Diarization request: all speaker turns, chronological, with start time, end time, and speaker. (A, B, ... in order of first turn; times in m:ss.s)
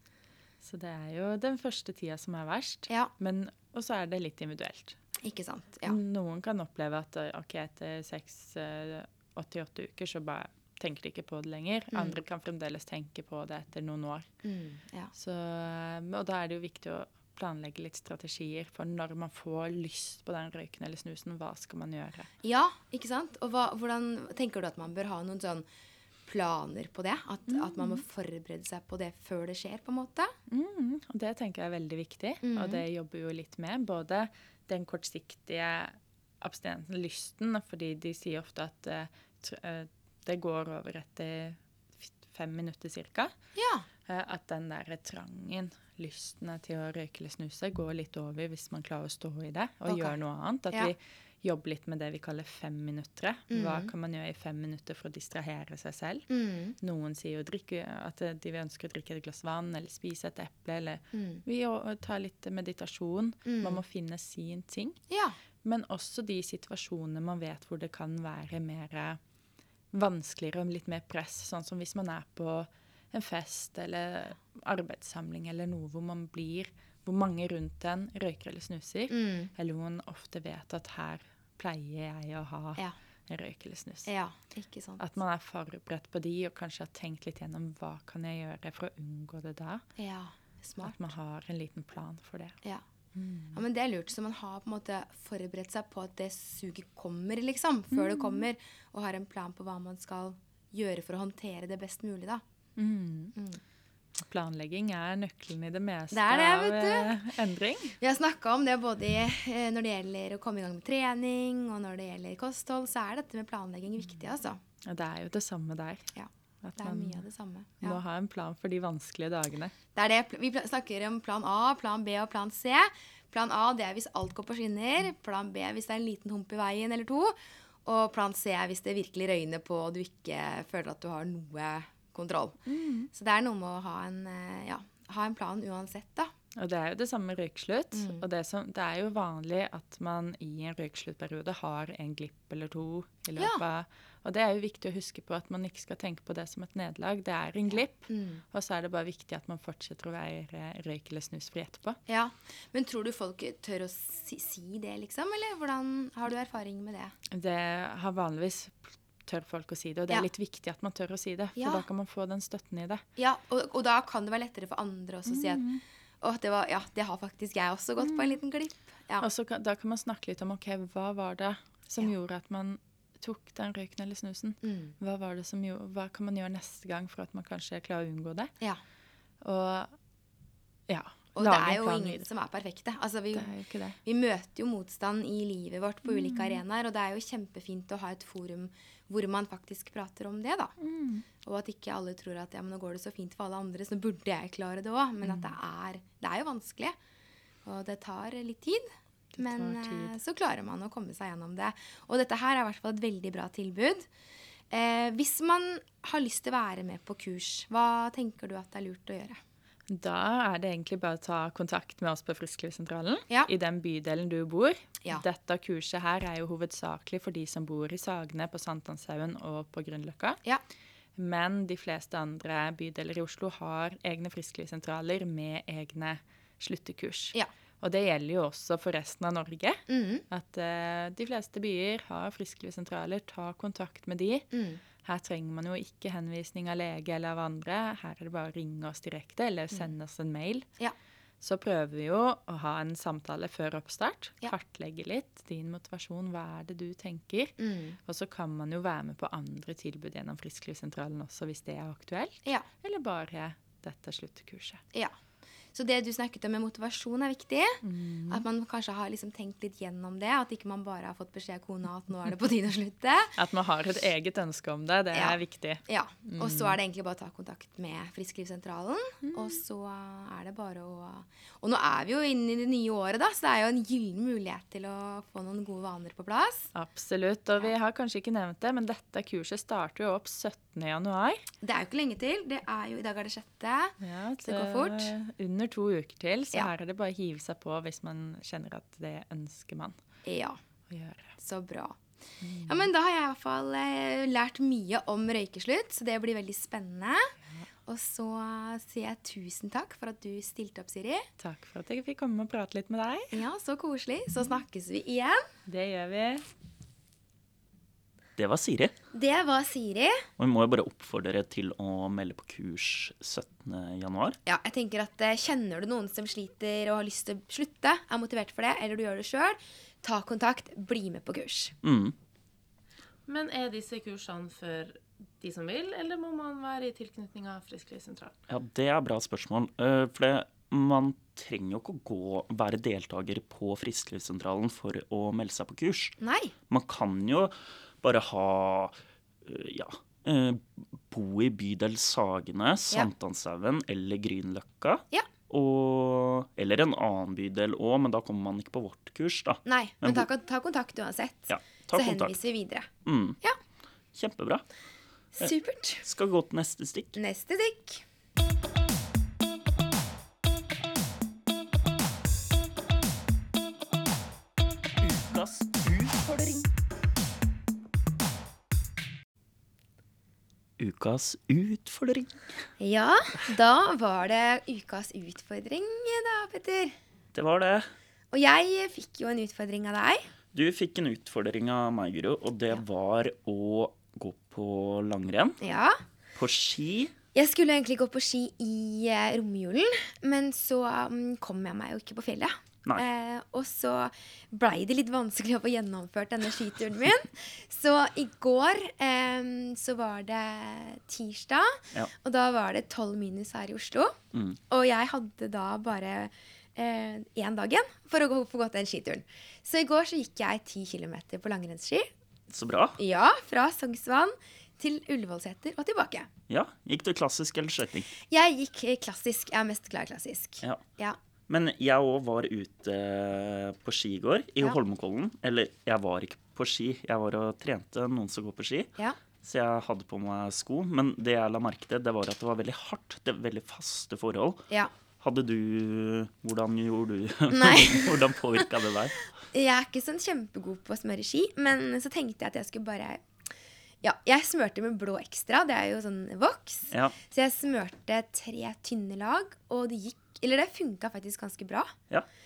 0:00.6-0:05.0 A
0:05.2-0:06.0 B
0:05.8-0:14.3 A
0:14.4-0:15.1 B
0:15.1-0:22.3 A
0:22.4-0:25.6 B
0:26.3-0:30.3 B
0:27.5-0:28.0 A
0:30.5-0:43.3 A
0:32.4-0:32.8 B
0:43.6-0:43.9 B
0:44.1-0:56.2 A
0:49.9-0:50.2 B
0:53.5-0:53.9 B
0:56.3-0:56.8 B
0:56.8-1:05.0 A
1:01.1-1:01.4 B
1:03.4-1:03.8 B
1:05.1-1:05.4 B
1:05.6-1:09.2 A
1:09.9-1:24.1 A
1:19.1-1:19.5 B
1:24.1-1:25.0 B
1:25.0-1:29.8 A
1:30.0-1:31.1 B
1:30.8-1:32.6 A
1:33.2-1:33.6 A
1:33.5-1:42.4 B
1:37.9-1:38.5 A
1:42.8-1:43.4 A
1:44.2-1:48.0 A
1:46.1-1:47.1 B
1:48.0-1:54.6 B
1:54.9-1:56.1 A
1:56.2-1:58.0 B
1:56.6-1:57.2 A
1:57.8-1:59.7 A
2:00.0-2:12.6 B
2:12.7-2:13.1 A
2:13.1-2:16.3 B
2:16.6-2:32.0 A
2:17.9-2:18.2 B
2:27.7-2:28.4 B
2:32.1-2:37.1 B
2:37.3-2:43.0 A
2:41.6-2:41.8 B
2:43.2-2:45.6 B
2:45.3-2:45.8 A
2:46.2-2:49.3 B
2:48.0-2:48.4 A
2:49.2-2:58.5 A
2:54.6-2:55.0 B
2:59.4-2:59.9 A
3:00.9-3:02.2 A
3:01.4-3:03.5 B
3:03.3-3:04.0 A
3:04.0-3:10.7 B
3:06.1-3:06.6 A
3:10.8-3:11.2 A
3:11.4-3:17.0 B
3:15.2-3:15.5 A
3:17.6-3:24.1 B
3:19.3-3:20.2 A
3:24.7-3:29.4 B
3:29.9-3:40.4 A
3:41.2-3:54.5 A
3:49.9-3:50.2 B
3:54.5-3:54.8 B
3:55.0-4:00.7 A
4:01.4-4:07.5 A
4:07.6-4:08.0 B
4:08.1-4:14.8 A
4:15.7-4:23.4 B
4:17.8-4:18.4 A
4:23.4-4:26.8 A
4:25.1-4:36.7 B
4:29.2-4:29.6 A
4:36.7-4:41.5 A
4:41.6-4:45.1 B
4:44.0-4:50.0 A
4:50.2-4:50.6 B
4:50.9-4:51.4 A
4:51.4-4:52.0 B
4:52.4-4:52.9 A
4:52.7-4:57.3 B
4:57.9-5:01.3 B
5:01.4-5:03.4 A
5:03.3-5:05.4 B
5:05.7-5:06.4 A
5:08.4-5:09.0 C
5:09.1-5:10.2 B
5:10.4-5:14.4 C
5:14.5-5:21.8 B
5:21.8-5:22.2 C
5:23.3-5:28.3 D
5:28.5-5:36.2 C
5:36.2-5:36.5 B
5:36.7-5:50.3 C
5:49.7-5:52.9 B
5:51.5-5:52.4 C
5:53.0-5:53.4 C
5:54.1-5:54.6 C
5:55.4-5:56.0 B
5:56.0-5:57.2 C
5:57.2-5:58.0 B
6:05.0-6:06.7 C
6:10.8-6:12.5 C
6:12.8-6:17.0 B
6:17.3-6:17.9 C
6:18.3-6:20.3 B
6:20.5-6:25.6 C
6:25.6-6:26.0 B
6:26.4-6:27.2 C
6:27.3-6:44.2 B
6:44.3-6:44.6 C
6:44.7-6:52.1 B
6:52.5-6:53.0 C
6:53.0-6:56.3 B
6:56.5-6:58.1 C
6:58.3-7:01.2 B
7:01.5-7:08.9 C
7:09.4-7:14.6 C
7:15.2-7:19.2 C
7:17.5-7:18.6 B
7:19.5-7:23.2 B
7:24.0-7:31.9 B
7:26.9-7:27.2 C